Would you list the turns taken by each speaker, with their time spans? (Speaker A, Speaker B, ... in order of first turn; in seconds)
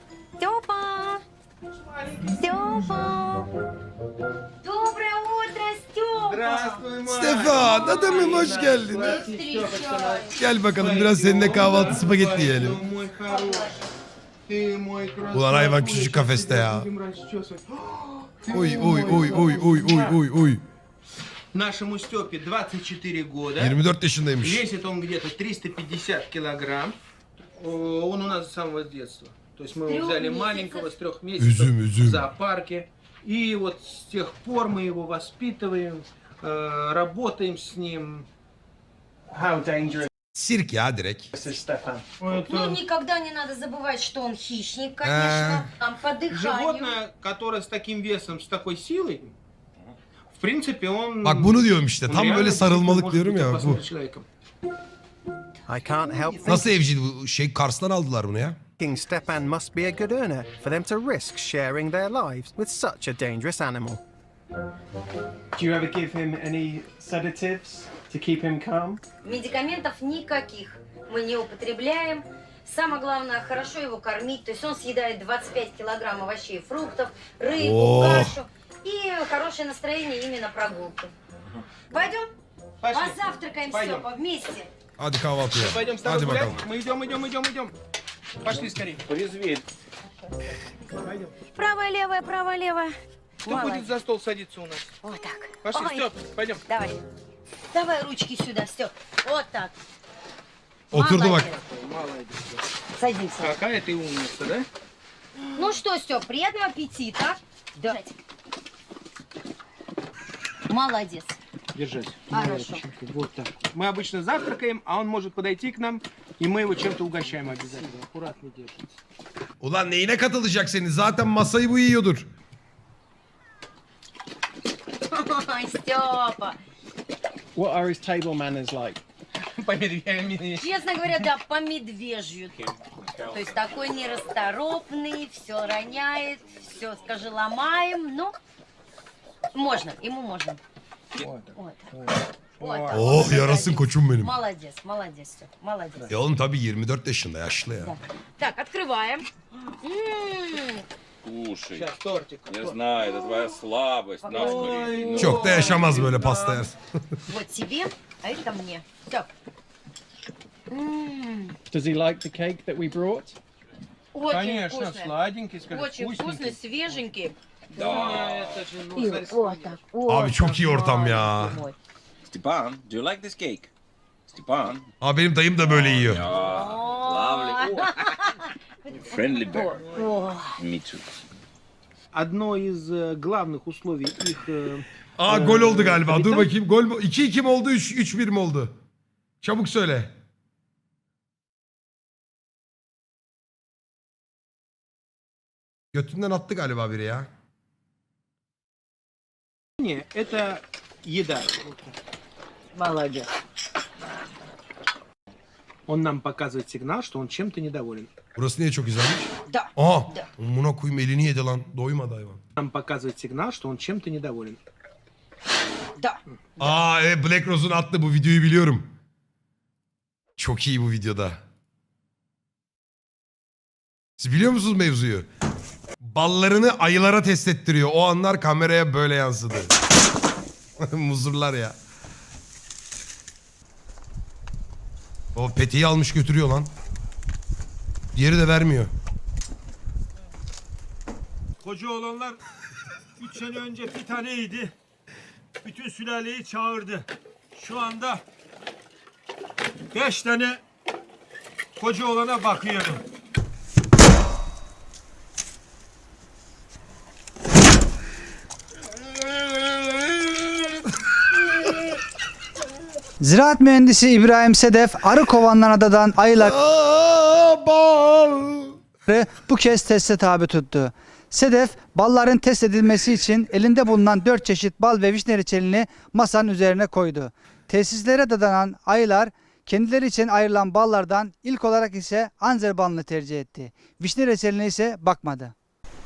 Speaker A: 0.4-1.2, 2.4-3.5, 4.6-6.8, 7.5-10.3, 13.3-13.8, 29.9-30.9, 42.3-47.0, 69.2-81.1, 81.9-82.3, 82.9-84.7, 91.5-92.9, 93.4-93.9, 95.0-96.1, 96.7-97.0, 97.7-99.7, 100.9-101.6, 103.0-103.5, 105.5-108.1, 110.7-111.4, 112.3-112.8, 125.1-126.6, 130.5-132.5, 133.3-138.4, 139.5-140.6, 141.6-141.9, 142.6-146.1, 147.8-150.8, 154.2-155.0, 157.3-159.3, 160.7-161.5, 164.1-167.4, 168.9-171.8, 176.3-180.6, 202.7-203.3, 209.5-210.3
Speaker B: 1.7-2.5, 6.2-13.8, 14.5-20.2, 21.5-23.8, 24.4-27.0, 27.6-38.3, 42.2-42.8, 46.3-49.4, 50.3-54.3, 82.8-84.1, 85.5-87.7, 88.4-89.1, 91.0-91.3, 93.5-94.9, 95.6-96.6, 101.6-102.6, 103.4-104.7, 111.7-118.9, 129.6-130.8, 141.2-143.3, 151.7-152.8, 154.3-156.6, 164.3-166.6, 167.7-169.8, 179.7-180.2, 182.1-186.5, 199.8-202.0, 205.9-208.1, 212.6-214.6
Speaker C: 7.1-9.1, 10.4-12.8, 15.3-16.9, 18.5-20.6, 23.6-24.6, 31.4-32.3, 40.3-41.3, 45.0-45.7, 51.2-53.8, 56.4-58.7, 77.6-78.4, 85.0-86.6, 100.9-101.5, 119.6-122.3, 142.9-144.3, 146.1-147.9, 155.2-156.8, 170.1-171.6, 175.0-176.3, 185.2-188.7, 189.4-190.1, 195.9-197.3, 208.3-212.4, 216.6-218.9, 220.4-221.4, 224.2-225.3, 226.0-229.7, 230.8-231.8, 235.3-236.7, 238.2-238.9, 266.4-268.8
Speaker D: 39.3-40.0, 41.4-42.0, 65.5-69.0, 127.5-129.0, 161.7-163.4
Speaker E: 55.7-56.8, 58.8-64.0
Speaker F: 89.1-89.6, 132.9-133.4, 151.2-151.9, 152.5-155.8, 167.8-168.5, 172.3-173.7, 174.3-174.9, 175.6-177.8, 179.1-179.8, 180.5-181.2
Speaker G: 241.6-242.4, 243.2-244.7, 245.6-248.2, 249.9-250.6, 251.8-253.0
Speaker H: 263.2-266.6, 269.1-285.5